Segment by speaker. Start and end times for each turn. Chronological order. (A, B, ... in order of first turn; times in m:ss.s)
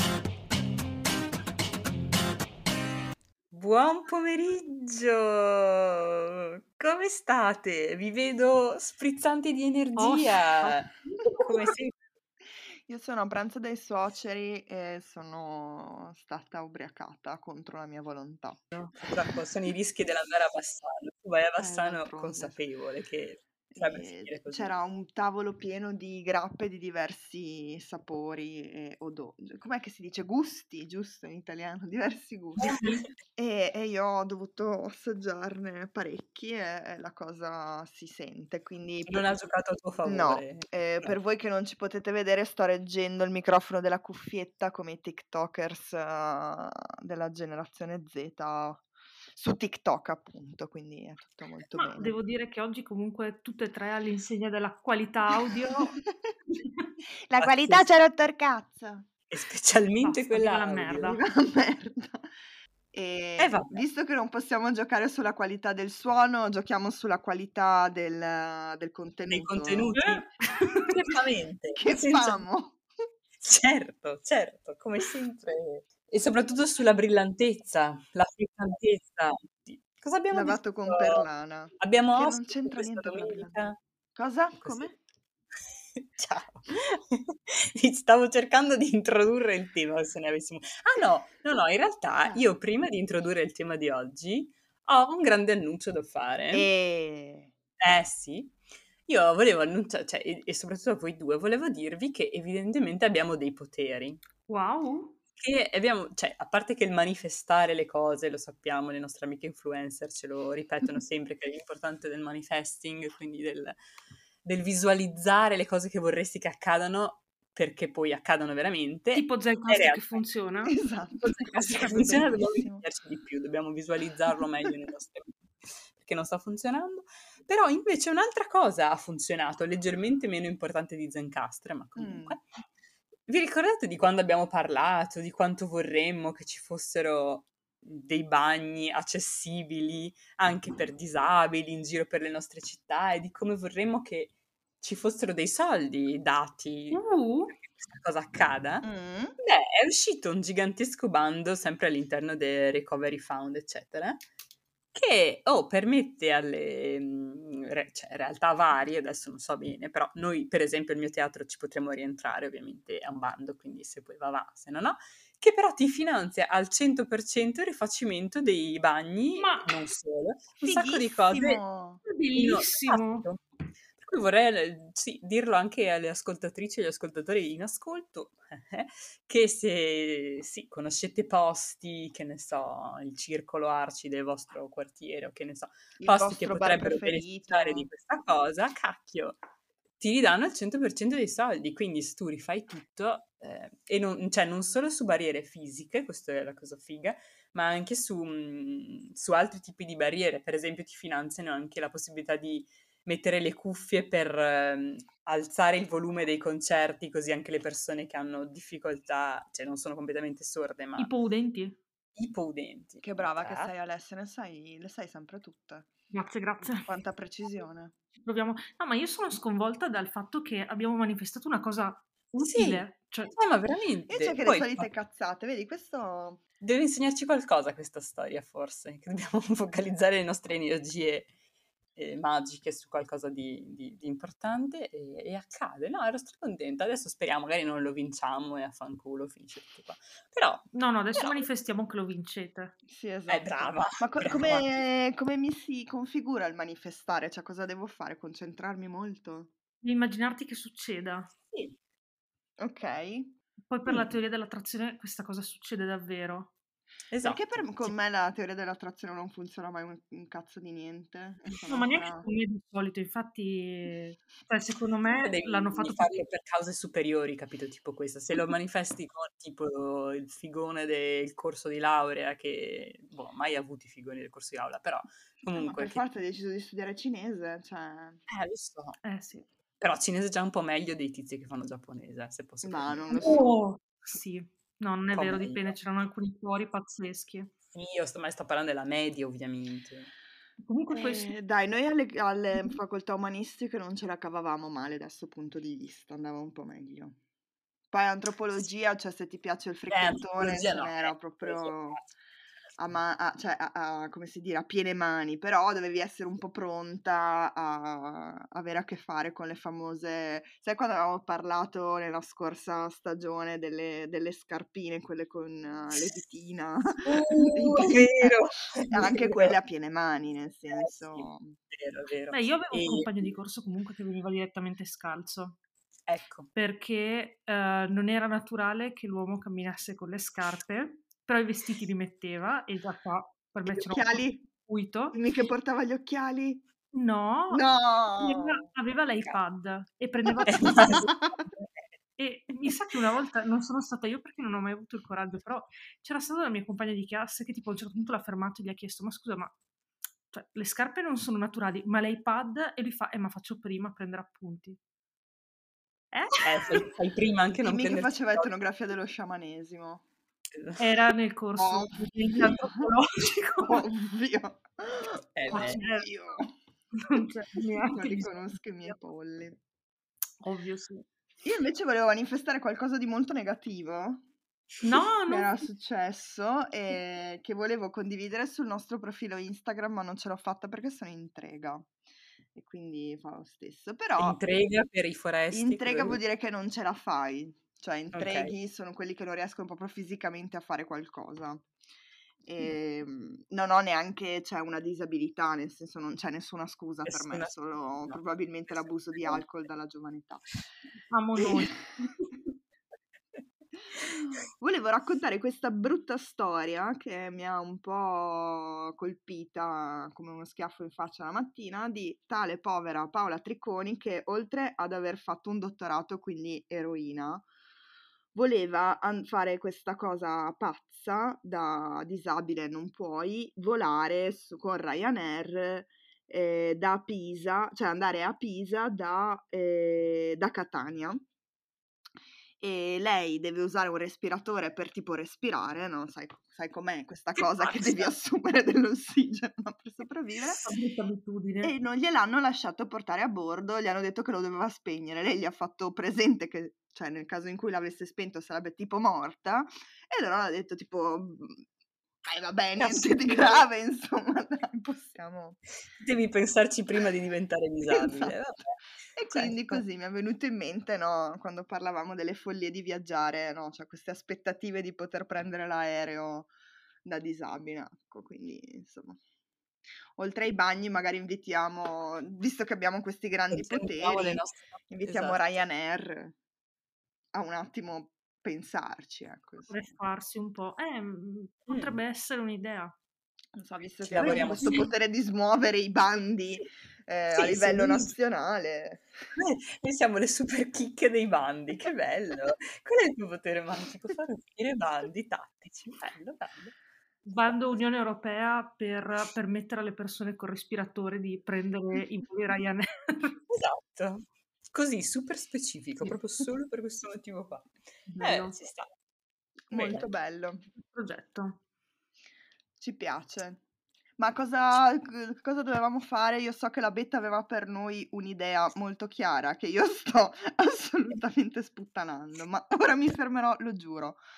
0:03.5-0:12.0 A
0:10.0-0:11.5 B
0:12.6-0:18.6 C
0:19.0-0:24.7 A
0:21.6-0:22.6 C
0:23.7-0:39.2 C
0:32.6-0:33.1 B
0:32.8-0:33.0 A
0:39.1-0:41.1 A
0:40.0-0:48.8 C
0:49.3-0:52.1 C
0:51.7-0:55.9 B
0:55.8-0:56.3 C
0:57.3-0:59.1 C
0:57.4-0:57.9 A
0:59.3-1:01.2 A
1:00.0-1:01.2 B
1:01.0-1:02.3 C
1:02.9-1:09.9 C
1:03.4-1:03.8 A
1:09.3-1:12.4 A
1:10.0-1:10.9 B
1:11.7-1:12.8 C
1:13.4-1:21.2 A
1:20.3-1:23.6 C
1:21.8-1:23.8 A
1:24.1-1:24.9 C
1:24.6-1:24.9 A
1:26.0-1:36.7 A
1:36.5-1:37.5 C
1:37.8-1:38.5 A
1:39.1-1:44.2 A
1:44.5-1:45.2 B
1:45.4-1:53.8 A
1:54.4-2:00.2 A
1:59.1-2:00.8 B
2:00.7-2:02.8 C
2:01.2-2:05.3 A
2:06.0-2:12.4 A
2:12.0-2:12.4 C
2:13.3-2:28.9 A
2:26.9-2:27.5 B
2:28.8-2:29.3 C
2:29.4-2:34.2 A
2:34.9-2:51.6 A
2:49.4-2:49.7 B
2:50.6-2:52.0 C
2:52.0-2:53.2 B
2:52.3-2:53.4 A
2:54.0-3:09.4 A
3:06.0-3:07.9 C
3:10.0-3:31.1 A
3:31.0-3:31.8 B
3:32.2-3:33.7 A
3:33.0-3:35.9 C
3:36.1-3:36.9 B
3:36.8-3:37.9 C
3:38.2-3:43.3 B
3:42.3-3:44.9 A
3:44.1-3:46.4 C
3:46.6-3:51.3 A
3:52.0-4:01.4 A
4:00.7-4:02.8 B
4:02.9-4:09.5 C
4:03.3-4:04.8 A
4:09.8-4:11.3 B
4:12.6-4:13.3 C
4:13.7-4:16.5 B
4:17.1-4:17.9 A
4:17.2-4:22.2 C
4:21.7-4:26.2 B
4:25.2-4:36.0 A
4:35.5-4:38.2 C
4:38.3-4:39.0 A
4:39.0-4:39.5 B
4:39.8-4:43.4 A
4:42.6-4:43.5 C
4:43.1-4:47.5 B
4:45.1-4:45.7 A
4:47.7-4:50.1 A
4:50.6-4:51.3 B
4:50.9-4:57.2 C
4:57.9-5:02.0 C
4:59.9-5:02.0 A
5:02.8-5:21.6 C
5:17.0-5:19.6 A
5:20.7-5:23.3 A
5:22.3-5:25.6 B
5:26.1-5:26.5 A
5:26.5-5:35.2 B
5:33.6-5:34.4 C
5:35.1-5:36.6 C
5:36.9-5:41.1 B
5:37.5-5:38.7 C
5:40.4-5:41.7 A
5:40.9-5:41.3 C
5:42.2-5:49.5 B
5:50.3-5:54.8 B
5:56.1-5:56.9 B
5:56.4-5:58.5 A
5:57.5-6:00.0 C
6:00.5-6:00.8 A
6:00.8-6:03.8 B
6:01.6-6:02.9 C
6:03.6-6:06.5 C
6:05.3-6:05.8 A
6:05.5-6:06.1 B
6:06.9-6:08.3 B
6:07.9-6:09.6 C
6:10.4-6:11.0 B
6:11.4-6:14.2 C
6:14.8-6:15.6 B
6:15.3-6:21.9 C
6:22.5-6:24.4 C
6:24.2-6:26.2 A
6:25.5-6:31.7 C
6:28.1-6:28.5 A
6:32.4-6:40.4 C
6:37.0-6:38.2 A
6:41.1-6:41.8 B
6:41.4-6:42.1 C
6:44.1-6:57.5 C
6:58.3-7:11.2 C
7:12.6-7:20.6 C
7:17.3-7:18.1 A
7:20.6-7:21.7 B
7:21.6-7:31.6 C
7:32.2-7:35.6 C
7:32.8-7:33.6 A
7:36.0-7:38.6 A
7:37.9-7:38.3 C
7:39.2-7:46.5 C
7:39.3-7:39.8 A
7:47.0-7:49.2 C
7:50.2-7:56.3 C
7:53.5-7:55.5 A
7:57.3-7:59.7 C
7:59.7-8:02.9 B
8:01.7-8:02.0 A
8:03.5-8:09.1 C
8:04.0-8:04.9 A
8:04.2-8:04.8 B
8:07.3-8:08.1 A
8:09.4-8:16.7 A
8:17.2-8:23.4 B
8:23.5-8:28.9 A
8:28.1-8:28.6 B
8:29.7-8:30.6 C
8:29.7-8:30.0 A
8:30.8-8:31.6 B
8:32.8-8:33.6 C
8:34.2-8:44.2 C